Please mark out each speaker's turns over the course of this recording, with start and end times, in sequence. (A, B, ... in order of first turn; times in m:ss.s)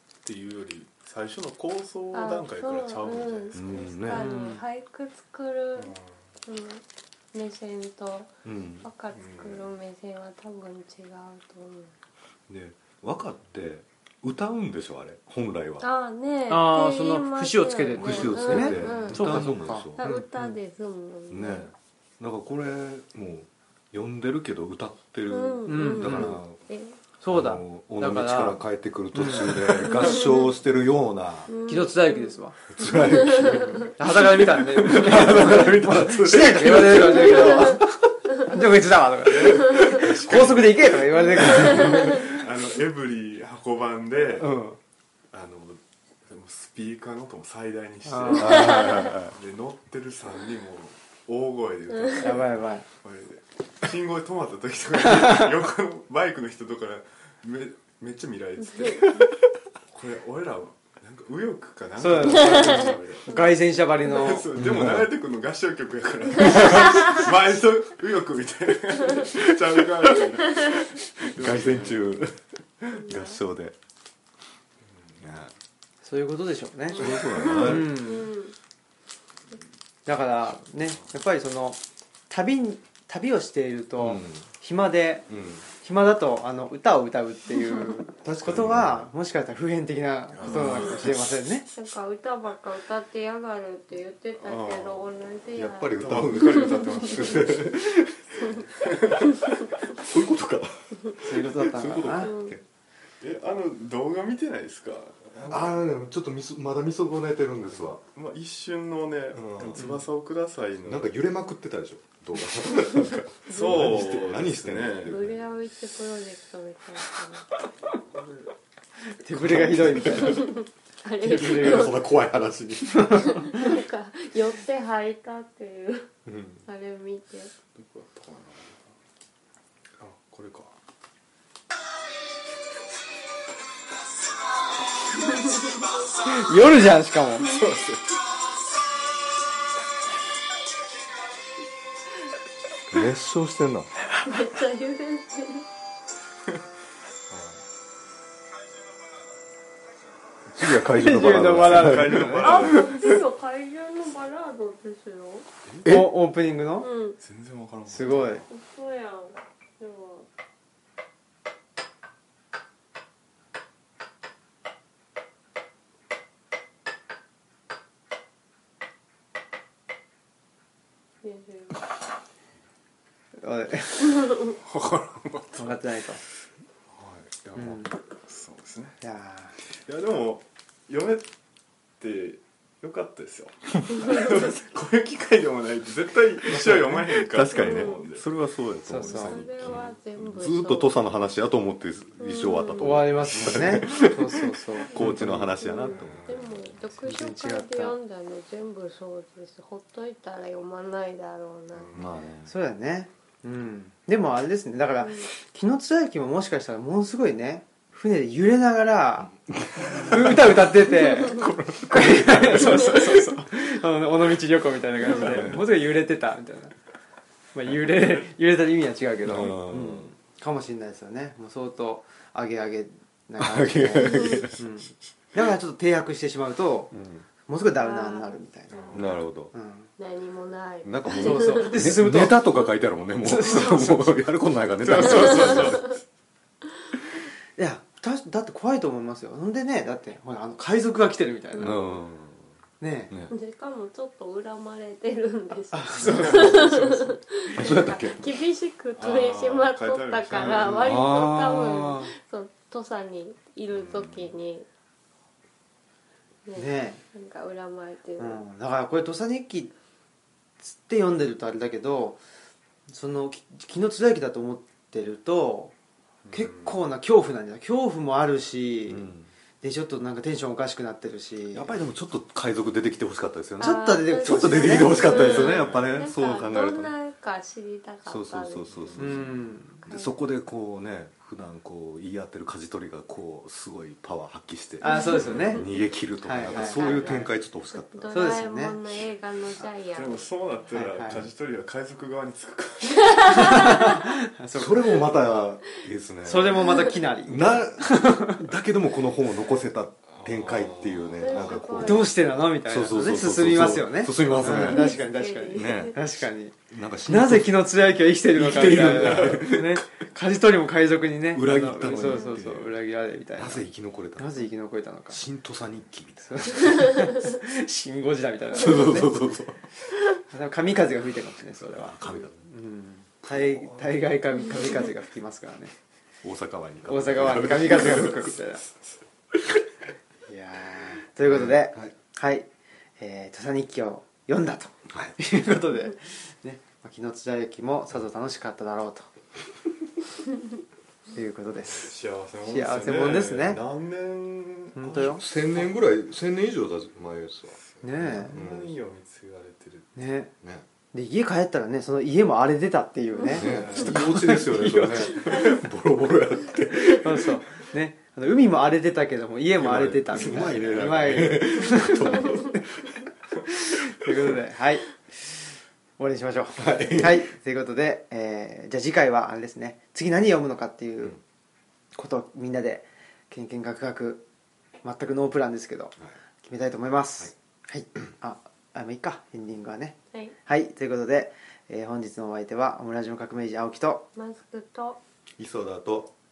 0:00.2-0:03.6 A
0:02.1-0:05.9 B
0:03.5-0:04.3 C
0:04.1-0:04.6 D
0:05.8-0:06.2 A
0:06.4-0:12.0 B
0:08.4-0:08.9 C
0:09.1-0:09.7 A
0:12.5-0:15.8 C
0:15.8-0:21.7 B
0:16.5-0:20.5 D
0:17.9-0:20.2 C
0:21.3-0:26.6 C
0:25.3-0:27.0 B
0:25.7-0:26.4 D
0:27.2-0:28.6 D
0:27.3-0:31.5 C
0:29.1-0:30.2 D
0:29.9-0:30.5 B
0:31.5-0:33.9 B
0:31.7-0:33.3 D
0:32.8-0:37.3 C
0:33.4-0:33.9 A
0:34.0-0:42.4 D
0:34.8-0:37.8 A
0:39.2-0:44.5 A
0:44.4-0:44.8 D
0:45.3-0:59.2 A
0:48.1-0:48.6 D
0:48.3-0:49.3 C
0:52.2-0:52.8 D
0:59.9-1:03.4 A
1:02.0-1:04.5 D
1:04.0-1:12.1 A
1:04.6-1:05.1 C
1:09.2-1:13.8 C
1:12.9-1:13.4 B
1:15.2-1:15.5 C
1:16.0-1:18.3 D
1:16.9-1:18.0 C
1:17.2-1:18.5 B
1:20.0-1:31.7 D
1:24.0-1:24.4 C
1:25.3-1:25.6 C
1:28.2-1:29.1 C
1:30.3-1:31.4 A
1:30.5-1:30.9 C
1:31.7-1:37.5 B
1:34.4-1:35.1 A
1:35.5-1:42.6 C
1:36.0-1:37.8 A
1:38.6-1:39.5 A
1:41.2-1:42.3 D
1:42.2-1:42.5 B
1:43.2-1:45.8 A
1:45.5-1:48.0 C
1:48.0-1:51.2 A
1:49.3-1:50.0 C
1:49.8-1:50.0 D
1:50.8-1:55.5 C
1:53.4-1:55.2 A
1:55.1-1:57.5 B
1:59.2-2:00.6 D
1:59.3-2:00.5 C
2:00.2-2:02.0 B
2:01.2-2:02.0 D
2:01.2-2:03.4 C
2:03.0-2:03.8 D
2:03.1-2:06.1 B
2:06.2-2:06.6 C
2:06.6-2:07.5 B
2:07.7-2:08.9 A
2:10.0-2:10.7 A
2:16.1-2:17.5 D
2:17.4-2:18.2 A
2:22.9-2:23.9 C
2:24.2-2:25.6 B
2:27.3-2:27.6 A
2:30.5-2:33.0 C
2:30.7-2:32.7 D
2:31.5-2:33.2 A
2:32.4-2:35.4 B
2:35.8-2:36.1 C
2:35.8-2:36.9 D
2:36.8-2:37.2 B
2:37.2-2:38.4 A
2:37.8-2:38.4 D
2:38.5-2:40.3 B
2:51.2-2:51.8 B
2:53.4-2:54.4 D
2:54.5-2:55.8 A
2:55.6-2:56.2 D
2:56.9-2:59.0 A
2:57.5-2:57.9 D
2:59.0-2:59.5 D
2:59.6-3:01.3 A
3:02.0-3:08.2 A
3:06.5-3:16.9 C
3:07.5-3:08.0 B
3:08.9-3:09.4 D
3:08.9-3:09.9 A
3:09.1-3:10.9 B
3:12.2-3:13.1 B
3:12.8-3:15.6 D
3:13.3-3:13.8 A
3:15.6-3:22.0 B
3:16.0-3:16.3 A
3:17.0-3:18.0 D
3:21.7-3:22.1 A
3:21.9-3:22.5 C
3:22.4-3:29.3 D
3:25.0-3:25.3 B
3:29.5-3:33.3 C
3:29.9-3:36.7 D
3:35.1-3:35.6 C
3:37.5-3:46.9 D
3:39.2-3:40.1 C
3:43.4-3:44.6 C
3:44.0-3:44.4 B
3:46.9-3:47.2 C
3:47.4-3:49.9 D
3:47.8-3:48.9 B
3:48.7-3:49.0 A
3:48.9-3:49.5 C
3:50.0-3:51.9 B
3:50.8-3:55.8 C
3:51.1-3:52.7 D
3:53.2-3:54.2 D
3:54.8-3:56.0 A
3:55.0-3:55.9 B
3:57.6-4:01.9 D
4:01.5-4:02.0 B
4:01.6-4:02.5 C
4:02.8-4:03.1 D
4:03.3-4:14.7 B
4:05.7-4:07.1 D
4:06.0-4:06.8 A
4:07.6-4:08.3 C
4:09.0-4:11.0 A
4:10.5-4:12.1 C
4:13.7-4:14.4 A
4:16.4-4:18.4 B
4:16.5-4:17.0 D
4:18.2-4:19.7 D
4:20.6-4:22.2 D
4:22.9-4:25.7 D
4:26.2-4:26.8 A
4:26.3-4:29.1 D
4:28.9-4:29.3 C
4:29.6-4:31.7 D
4:31.5-4:36.9 C
4:33.6-4:35.6 D
4:33.6-4:40.2 B
4:35.4-4:35.9 A
4:38.0-4:48.4 C
4:39.0-4:39.8 D
4:44.8-4:45.6 D
4:44.8-4:45.8 B
4:45.2-4:45.6 A
4:46.2-4:47.3 D
4:46.5-4:50.3 B
4:48.1-4:48.8 D
4:49.9-4:54.0 A
4:50.7-4:51.2 D
4:53.0-4:54.0 B
4:53.3-4:55.1 D
4:54.5-5:06.0 C
4:56.2-4:58.5 D
5:00.1-5:01.6 A
5:01.2-5:02.2 B
5:01.7-5:06.6 D
5:04.4-5:06.0 B
5:06.7-5:07.6 C
5:07.1-5:15.2 D
5:08.3-5:09.9 C
5:08.8-5:09.4 A
5:11.3-5:12.7 C
5:12.0-5:12.4 B
5:13.4-5:14.4 C
5:15.1-5:17.1 C
5:16.3-5:19.2 D
5:18.5-5:19.9 C
5:20.3-5:25.7 D
5:21.6-5:22.5 C
5:23.3-5:23.8 C
5:26.2-5:28.4 C
5:26.9-5:28.6 D
5:30.2-5:39.1 D
5:31.3-5:31.9 C
5:34.9-5:35.2 C
5:41.1-5:43.6 D
5:41.6-5:45.0 A
5:44.7-5:45.2 D
5:44.9-5:47.6 C
5:47.7-5:50.0 A
5:47.8-5:48.4 D
5:48.3-5:48.7 C
5:49.9-5:50.3 D
5:50.9-5:55.6 D
5:53.3-5:54.0 A
5:53.3-5:57.5 C
5:56.7-6:02.6 D
5:59.6-6:02.7 C
6:03.5-6:11.2 D
6:06.6-6:07.3 C
6:11.9-6:14.2 D
6:14.8-6:24.0 D
6:24.2-6:25.0 B
6:25.4-6:26.1 C